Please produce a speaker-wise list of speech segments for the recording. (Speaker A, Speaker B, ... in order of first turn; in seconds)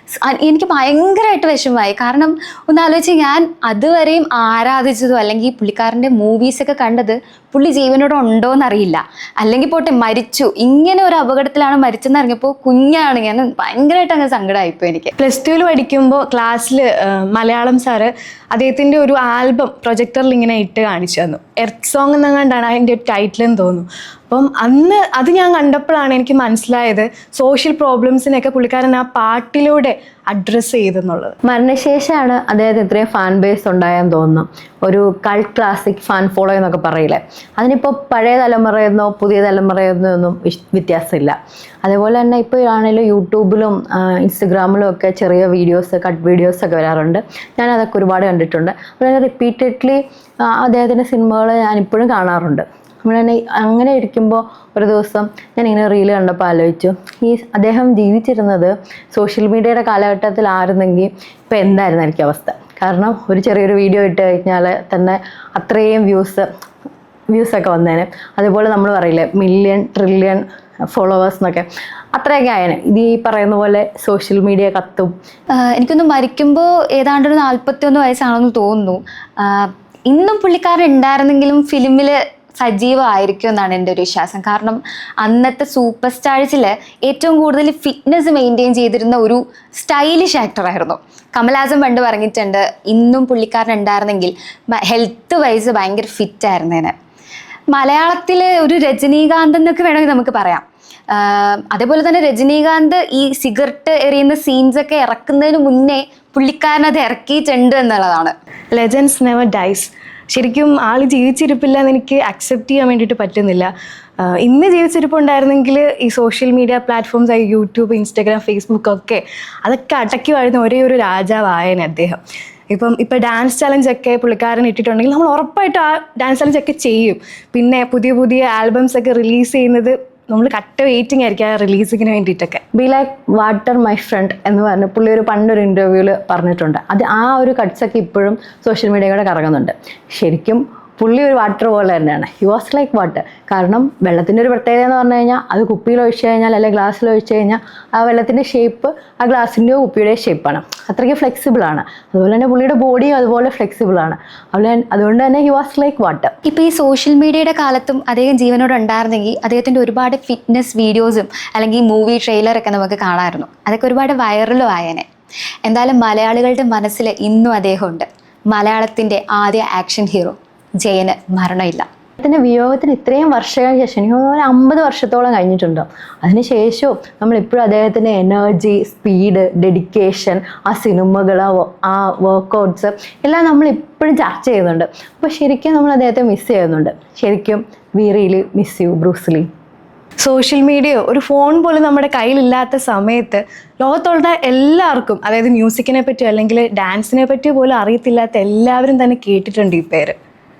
Speaker A: 0.2-15.1, 75.5-96.9, 97.7-108.3, 156.5-165.1, 165.7-171.8
Speaker B: 15.2-31.4, 108.7-132.6, 190.2-200.2
Speaker C: 31.5-66.5, 67.3-75.1, 132.7-156.3, 172.2-189.5